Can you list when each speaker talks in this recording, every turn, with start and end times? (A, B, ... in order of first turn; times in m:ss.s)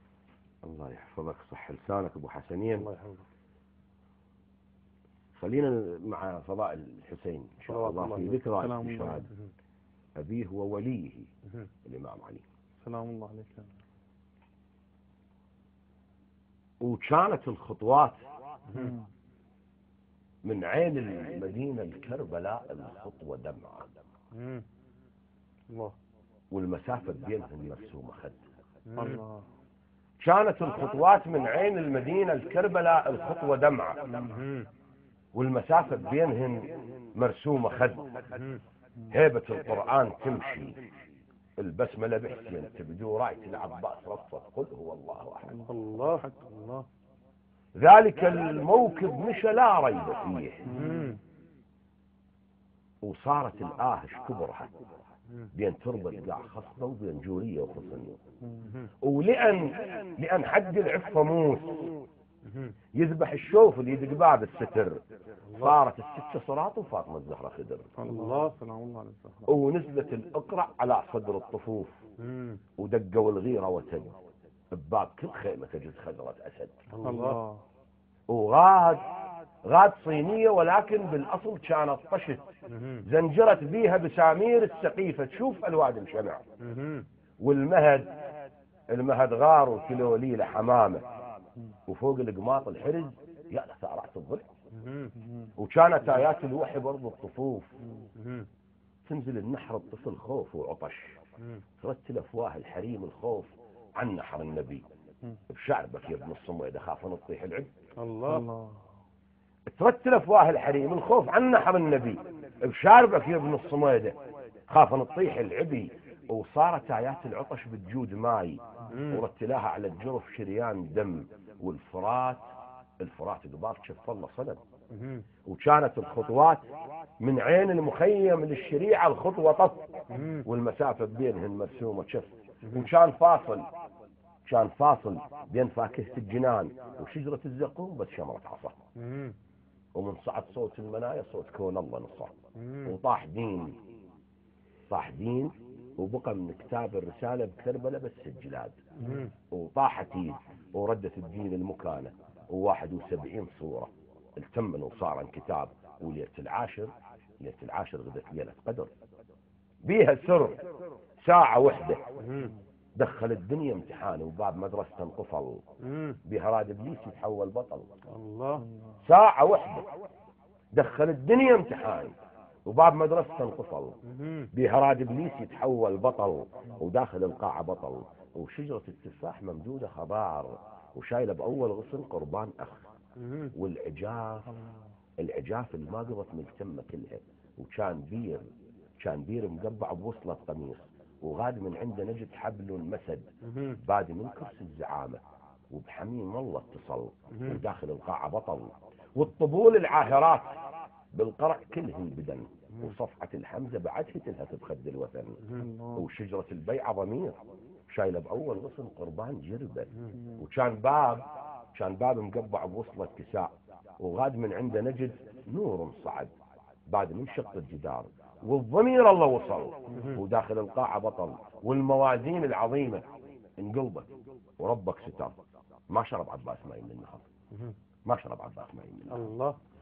0:00.6-0:02.9 A
0:02.8-0:03.2 B
0:05.3-0:09.3 A
0:07.7-0:08.4 B
0:08.6-0:09.2 C
0:10.2-0:11.3 A
0:11.8-0:12.4 A
0:12.8-0:13.7 C
0:16.8-0:18.2 A
0:18.7-0:18.9 B
0:18.7-0:19.0 C
0:20.4-0:23.9 A
0:24.4-0:24.6 B
0:26.5-0:28.4 A
0:28.9-0:29.4 B
0:29.0-0:29.2 C
0:30.2-0:34.1 A
0:34.3-0:34.6 B
0:35.3-0:38.1 A
0:39.1-0:40.8 A
0:41.6-0:45.6 A
0:45.4-0:46.2 C
0:45.7-0:46.8 B
0:47.8-0:50.7 A
0:50.7-0:51.0 C
0:50.7-0:51.2 B
0:53.0-0:54.7 A
0:55.5-0:58.2 A
0:59.0-1:02.0 A
1:02.9-1:07.9 A
1:05.5-1:05.7 B
1:08.0-1:08.6 B
1:08.1-1:09.5 C
1:09.5-1:12.0 A
1:12.2-1:12.6 B
1:12.8-1:14.1 A
1:14.7-1:16.8 A
1:16.9-1:17.4 B
1:17.0-1:17.6 C
1:18.3-1:19.1 A
1:19.6-1:22.5 A
1:23.0-1:26.4 A
1:26.7-1:27.0 B
1:27.4-1:28.2 A
1:28.9-1:31.0 A
1:31.9-1:34.5 A
1:35.6-1:37.7 A
1:39.0-1:41.2 A
1:41.8-1:44.8 A
1:45.5-1:47.7 A
1:48.0-1:48.5 B
1:48.3-1:48.8 C
1:49.7-1:54.2 A
1:54.7-2:02.4 A
1:58.9-1:59.2 B
2:03.0-2:04.6 A
2:04.9-2:05.2 B
2:05.4-2:06.6 A
2:07.2-2:13.7 A
2:10.1-2:10.4 B
2:14.4-2:18.8 A
2:19.0-2:19.4 B
2:19.9-2:22.3 A
2:22.6-2:22.9 B
2:22.8-2:23.8 A
2:24.9-2:28.8 A
2:29.0-2:29.3 B
2:29.5-2:38.9 A
2:39.8-2:40.6 A
2:41.2-2:42.0 A
2:42.9-2:45.6 A
2:45.9-2:46.2 B
2:46.2-2:47.9 A
2:48.1-2:48.6 B
2:48.6-2:48.9 C
2:49.0-2:49.9 A
2:50.7-2:52.1 A
2:52.6-2:54.0 A
2:54.5-3:02.9 A
3:03.5-3:04.5 A
3:05.2-3:08.4 A
3:09.0-3:20.6 A
3:21.1-3:27.4 A
3:25.6-3:26.0 C
3:27.9-3:36.3 A
3:30.1-3:30.4 C
3:36.9-3:43.0 A
3:43.6-3:45.3 A
3:45.9-3:47.2 A
3:48.0-3:49.3 A
3:49.1-3:49.6 B